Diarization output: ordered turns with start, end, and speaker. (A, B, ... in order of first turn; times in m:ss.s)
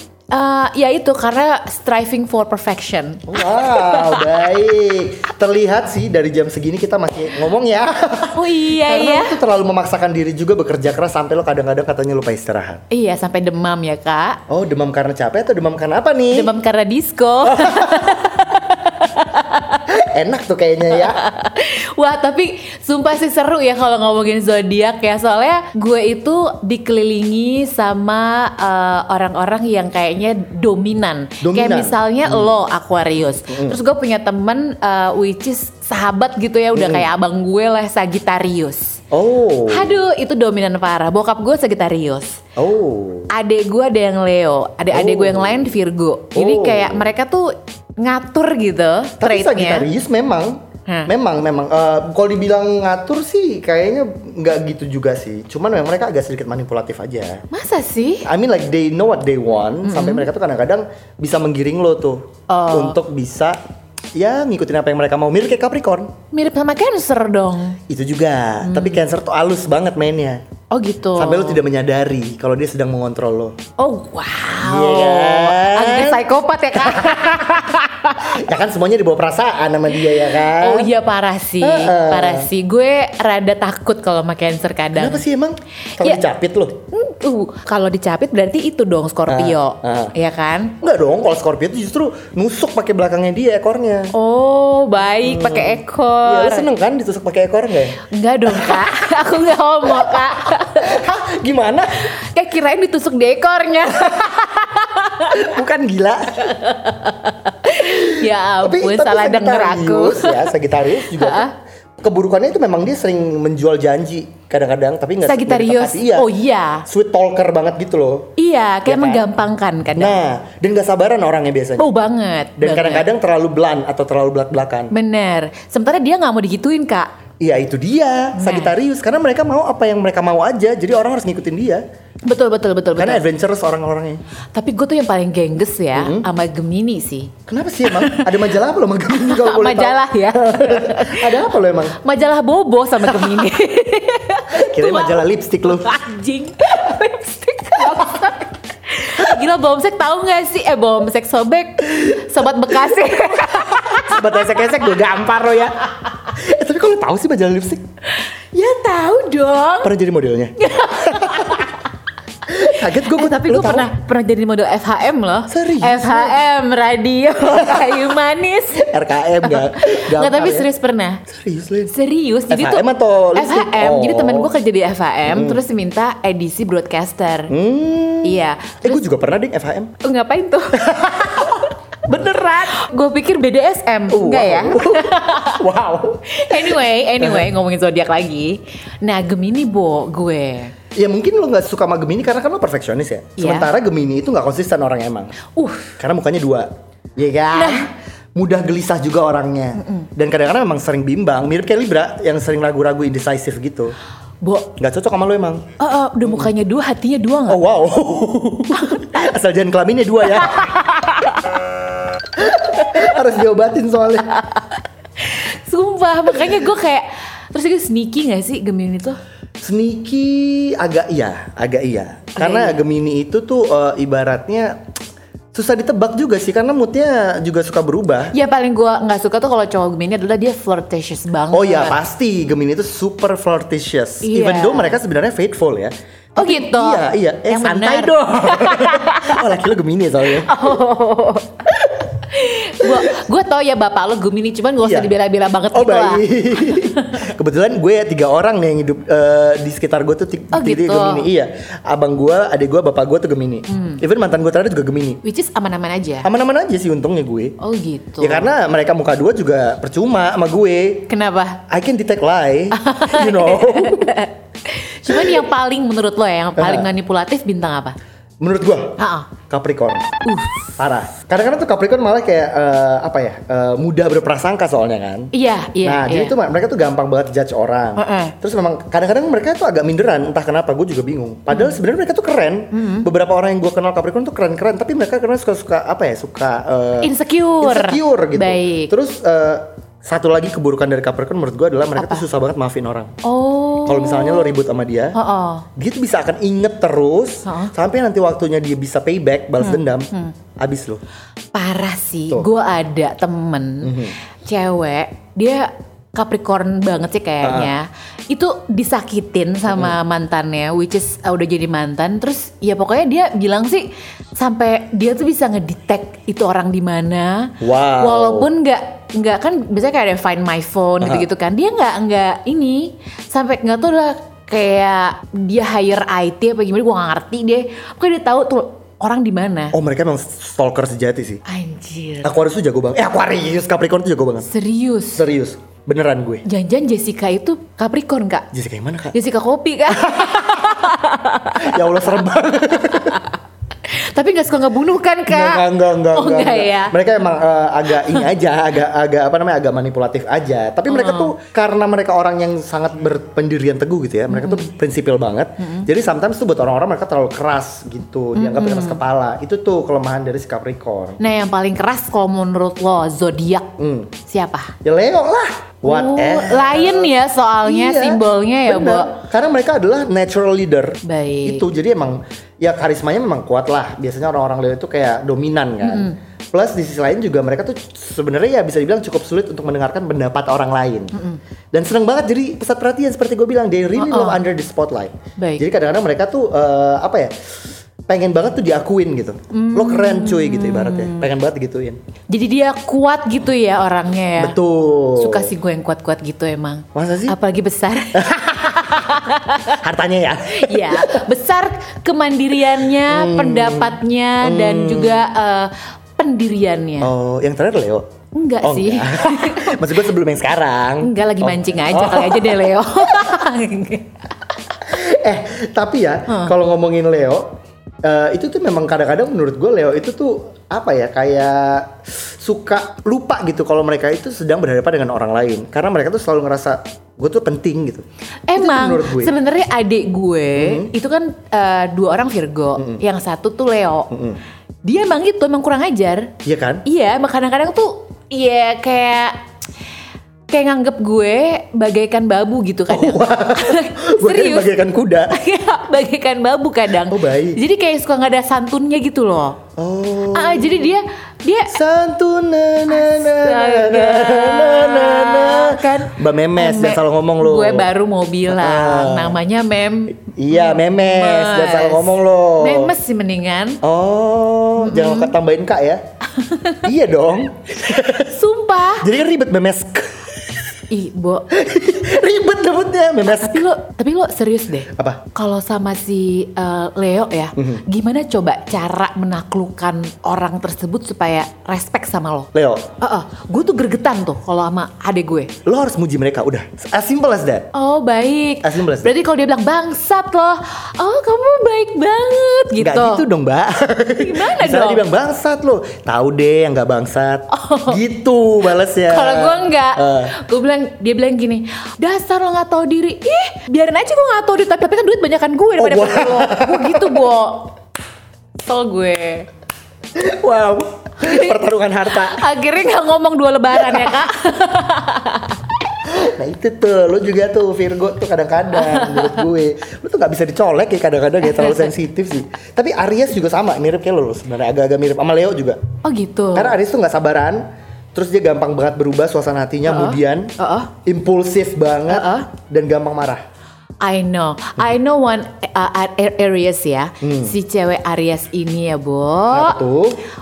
0:00.3-0:04.5 A
0:03.3-0:12.8 B
0:08.3-0:09.4 A
0:12.9-0:14.4 A
0:14.5-0:16.5 B
0:16.3-0:19.8 A
0:17.4-0:18.2 B
0:19.9-0:21.2 B
0:20.9-0:39.0 A
0:31.4-0:32.5 B
0:33.5-0:33.8 B
0:36.7-0:37.1 B
0:39.1-0:40.0 B
0:39.7-0:42.4 A
0:42.6-0:43.3 B
0:43.3-0:49.9 A
0:44.9-0:45.8 B
0:46.3-0:47.1 B
0:49.2-0:57.4 B
0:57.5-0:58.3 A
0:58.2-1:03.6 B
0:59.8-1:00.3 A
1:02.5-1:03.0 A
1:04.2-1:06.1 B
1:06.3-1:07.8 A
1:07.9-1:10.4 B
1:08.6-1:09.0 A
1:10.7-1:11.6 A
1:11.2-1:13.6 B
1:13.8-1:18.4 A
1:14.6-1:16.2 B
1:16.8-1:17.6 B
1:18.3-1:20.9 B
1:20.4-1:25.2 A
1:21.6-1:22.5 B
1:25.0-1:26.8 B
1:26.9-1:30.8 A
1:29.3-1:30.1 B
1:30.8-1:34.1 B
1:34.1-1:36.7 A
1:35.2-1:38.9 B
1:38.1-1:41.0 A
1:39.9-1:42.1 B
1:42.0-1:45.5 A
1:45.3-1:46.6 B
1:46.4-1:51.5 A
1:47.8-1:51.5 B
1:52.0-1:56.3 B
1:55.2-1:56.8 A
1:56.9-1:58.3 B
1:58.4-2:00.2 A
1:58.9-1:59.3 B
2:00.0-2:01.9 B
2:01.8-2:03.1 A
2:02.6-2:04.9 B
2:04.9-2:07.1 A
2:07.4-2:11.8 B
2:08.4-2:08.7 A
2:12.3-2:13.2 A
2:13.0-2:14.2 B
2:14.5-2:17.3 A
2:16.0-2:16.3 B
2:17.5-2:22.0 B
2:17.9-2:18.5 A
2:19.2-2:34.8 A
2:23.1-2:23.4 B
2:24.5-2:25.9 B
2:33.8-2:37.8 B
2:38.2-2:39.9 A
2:39.8-2:41.7 B
2:40.6-2:41.8 A
2:42.5-2:43.9 B
2:42.5-2:48.8 A
2:45.5-2:46.4 B
2:47.5-2:48.1 B
2:48.7-2:50.7 B
2:49.4-2:51.2 A
2:51.3-2:51.9 B
2:51.9-2:57.5 A
2:52.5-2:54.5 B
2:55.3-2:55.6 B
2:57.5-2:59.9 B
2:58.2-2:59.0 A
3:00.0-3:01.6 A
3:00.8-3:02.8 B
3:02.7-3:05.6 A
3:04.1-3:07.5 B
3:06.3-3:10.7 A
3:11.0-3:15.3 B
3:13.4-3:13.7 A
3:15.6-3:16.0 A
3:16.0-3:24.0 B
3:17.5-3:17.9 A
3:19.8-3:20.1 A
3:24.4-3:24.7 A
3:24.8-3:25.6 B
3:25.8-3:27.6 A
3:26.2-3:26.5 B
3:27.5-3:30.8 B
3:28.7-3:29.1 A
3:30.3-3:31.4 A
3:32.4-3:34.3 B
3:32.8-3:33.1 A
3:34.4-3:34.6 A
3:35.2-3:39.2 A
3:39.6-3:44.8 B
3:42.4-3:42.8 A
3:45.5-3:48.3 B
3:48.3-3:52.0 A
3:51.5-4:00.7 B
3:54.2-3:55.0 A
3:56.4-3:59.4 A
4:00.3-4:01.6 A
4:02.2-4:07.2 A
4:04.8-4:05.1 B
4:05.7-4:15.2 B
4:10.5-4:11.3 A
4:13.7-4:14.0 A
4:15.2-4:16.3 A
4:16.2-4:17.6 B
4:17.6-4:18.5 A
4:18.2-4:21.1 B
4:21.1-4:21.6 A
4:21.7-4:24.2 B
4:22.7-4:28.0 A
4:25.1-4:25.4 B
4:26.6-4:26.9 B
4:28.4-4:30.2 B
4:29.0-4:29.3 A
4:30.2-4:30.6 A
4:30.8-4:35.3 B
4:35.3-4:36.3 A
4:35.8-4:53.1 B
4:38.0-4:38.3 A
4:42.7-4:43.1 A
4:47.0-4:48.9 A
4:52.0-4:52.2 A
4:53.2-4:54.6 A
4:53.8-4:55.2 B
4:55.2-4:55.7 A
4:55.8-5:01.0 B
4:57.5-4:57.7 A
4:59.6-5:00.4 A
5:01.5-5:29.8 A
5:03.8-5:04.2 B
5:07.4-5:07.7 B
5:09.7-5:10.0 B
5:17.6-5:18.5 B
5:29.7-5:31.4 B
5:31.5-5:32.3 A
5:32.2-5:34.5 B
5:34.5-5:35.2 A
5:35.2-5:36.4 B
5:36.5-5:38.5 A
5:38.5-5:39.1 B
5:39.1-5:42.0 A
5:39.9-5:40.9 B
5:41.6-5:43.2 B
5:42.8-5:43.3 A
5:43.9-5:47.0 A
5:45.3-6:01.2 B
5:47.9-5:48.3 A
5:50.9-5:51.3 A
5:54.3-5:54.7 A
5:55.6-5:55.9 A
5:58.4-5:59.0 A
6:01.2-6:03.7 A
6:03.8-6:04.1 B
6:04.3-6:04.8 A
6:04.8-6:07.1 B
6:05.8-6:09.1 A
6:07.6-6:21.1 B
6:11.0-6:11.6 A
6:15.8-6:16.2 A
6:21.1-6:21.4 A
6:21.7-6:27.3 B
6:24.0-6:24.4 A
6:25.4-6:25.6 A
6:28.1-6:32.0 B
6:29.5-6:31.3 A
6:32.3-6:34.6 A
6:34.4-6:35.5 B
6:35.2-6:39.8 A
6:37.0-6:37.4 B
6:38.2-6:38.9 B
6:39.6-6:41.2 B
6:40.5-6:47.1 A
6:43.1-6:45.3 B
6:47.0-6:48.0 B
6:48.4-6:50.0 A
6:48.6-6:53.4 B
6:51.0-6:54.2 A
6:54.8-6:57.5 B
6:56.3-6:56.5 A
6:58.0-7:09.3 B
7:08.5-7:14.1 A
7:10.6-7:10.9 B
7:12.8-7:13.0 B
7:14.1-7:14.4 B
7:14.8-7:16.3 A
7:16.4-7:16.8 B
7:16.9-7:19.4 A
7:20.5-7:24.7 A
7:22.9-7:25.4 B
7:25.3-7:29.6 A
7:27.1-7:27.6 B
7:29.8-7:30.9 B
7:30.3-7:31.8 A
7:31.7-7:37.9 B
7:32.9-7:43.8 A
7:38.5-7:39.4 B
7:40.3-7:42.9 B
7:43.8-7:46.0 B
7:44.8-7:45.3 A
7:46.4-7:46.8 A
7:46.8-7:48.4 B
7:48.1-7:49.1 A
7:49.0-7:50.6 B
7:50.9-7:51.5 A
7:51.5-7:53.7 B
7:53.3-8:02.5 A
7:55.0-7:55.2 B
7:57.6-7:57.8 B
8:02.5-8:02.9 B
8:03.0-8:05.5 A
8:05.7-8:07.7 B
8:07.7-8:13.2 A
8:08.6-8:09.1 B
8:12.8-8:20.3 B
8:14.2-8:15.0 A
8:17.5-8:18.0 A
8:19.0-8:27.7 A
8:25.8-8:27.3 B
8:28.6-8:29.5 A
8:30.2-8:32.5 B
8:31.2-8:35.6 A
8:33.7-8:34.2 B
8:36.1-8:45.8 B
8:38.8-8:39.4 A
8:41.4-8:41.9 A
8:46.0-8:46.8 A
8:46.6-8:47.6 B
8:48.2-8:50.5 B
8:49.8-8:50.9 A
8:51.1-8:53.4 B
8:52.1-8:52.5 A
8:54.0-8:59.8 A
8:57.2-8:57.6 B
8:59.5-9:00.2 B